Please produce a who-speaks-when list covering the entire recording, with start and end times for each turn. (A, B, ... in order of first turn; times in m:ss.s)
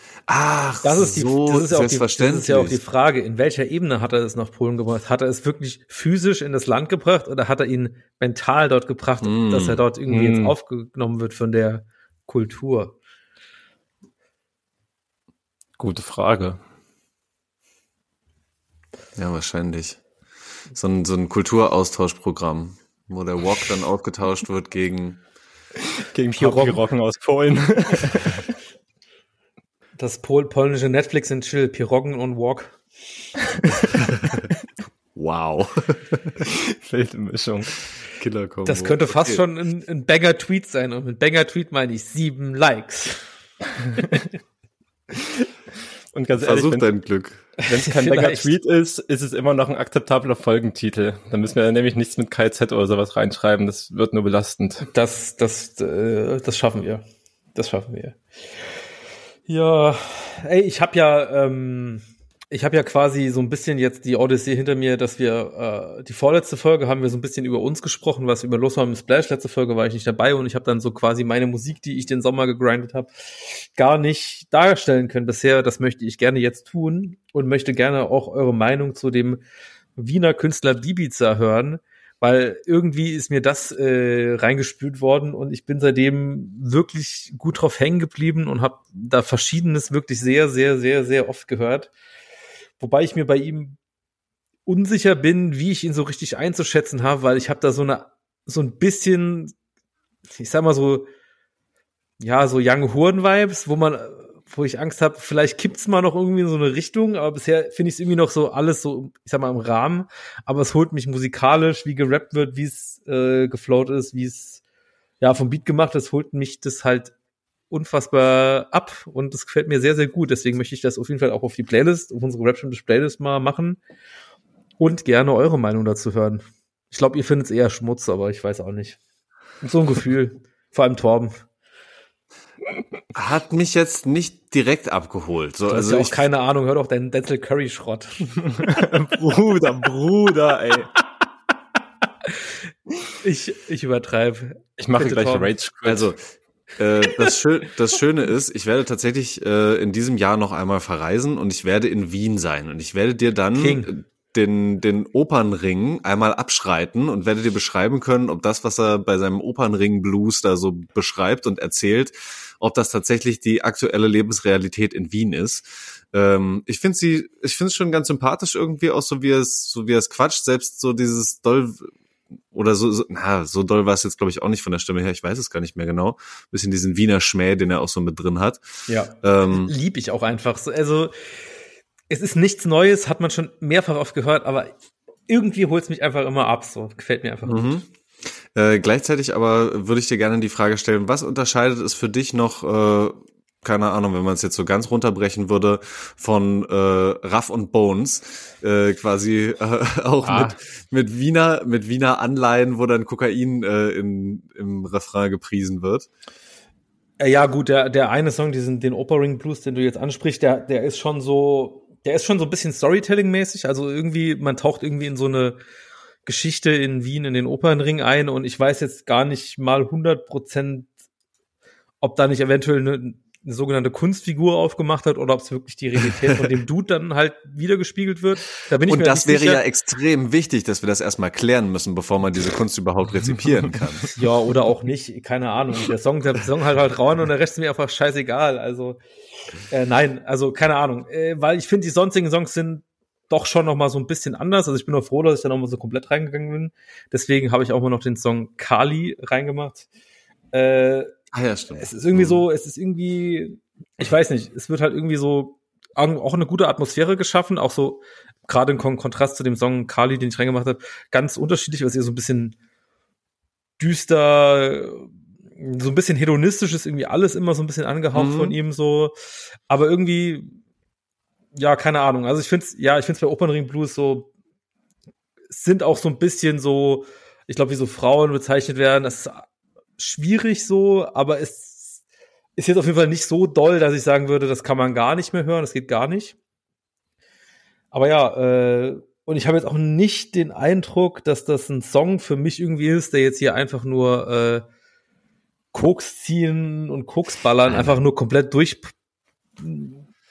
0:00.3-0:02.8 A
0:00.8-0:13.0 B
0:09.2-0:09.8 A
0:10.1-0:10.5 C
0:15.8-0:16.6 C
0:19.2-0:20.0 A
0:20.7-0:25.2 A
0:26.1-0:28.5 C
0:26.3-0:26.8 B
0:30.0-0:32.8 B
0:33.6-0:33.9 C
0:35.1-0:36.4 A
0:36.5-0:37.8 C
0:38.2-0:39.4 A
0:38.6-0:43.2 B
0:45.1-0:45.4 C
0:46.1-0:46.9 C
0:46.4-0:47.4 A
0:47.6-0:48.5 B
0:47.6-0:54.8 C
0:54.8-0:57.0 B
0:57.5-0:58.2 B
0:59.5-1:19.4 B
1:20.0-1:31.9 B
1:32.8-1:33.8 B
1:34.6-1:39.5 B
1:40.4-1:41.1 B
1:42.2-1:54.6 B
1:55.2-1:57.1 B
1:57.7-2:03.8 B
2:04.8-2:09.0 B
2:09.6-2:11.4 B
2:13.1-2:16.2 A
2:15.7-2:18.9 B
2:18.6-2:20.9 C
2:23.2-2:25.5 B
2:24.8-2:26.1 C
2:25.8-2:26.2 A
2:26.8-2:51.9 A
2:33.5-2:33.9 B
2:52.5-2:58.6 A
2:58.9-3:01.1 B
2:59.2-2:59.7 A
3:02.1-3:04.7 B
3:05.3-3:07.8 B
3:07.4-3:07.9 A
3:08.5-3:26.1 A
3:20.2-3:20.5 C
3:27.2-3:35.6 B
3:36.2-3:40.9 B
3:42.0-3:49.6 B
3:48.8-3:54.1 A
3:54.1-3:59.0 B
3:59.7-4:09.9 B
4:10.5-4:11.1 B
4:11.3-4:12.4 A
4:11.8-4:22.5 B
4:23.8-4:29.1 B
4:28.1-4:28.6 A
4:29.7-4:30.6 B
4:31.5-4:34.3 B
4:35.5-4:39.5 B
4:40.0-4:42.0 B
4:42.6-4:46.4 B
4:47.9-4:54.6 B
4:55.7-4:58.9 B
4:57.7-4:58.0 A
4:59.6-5:00.0 B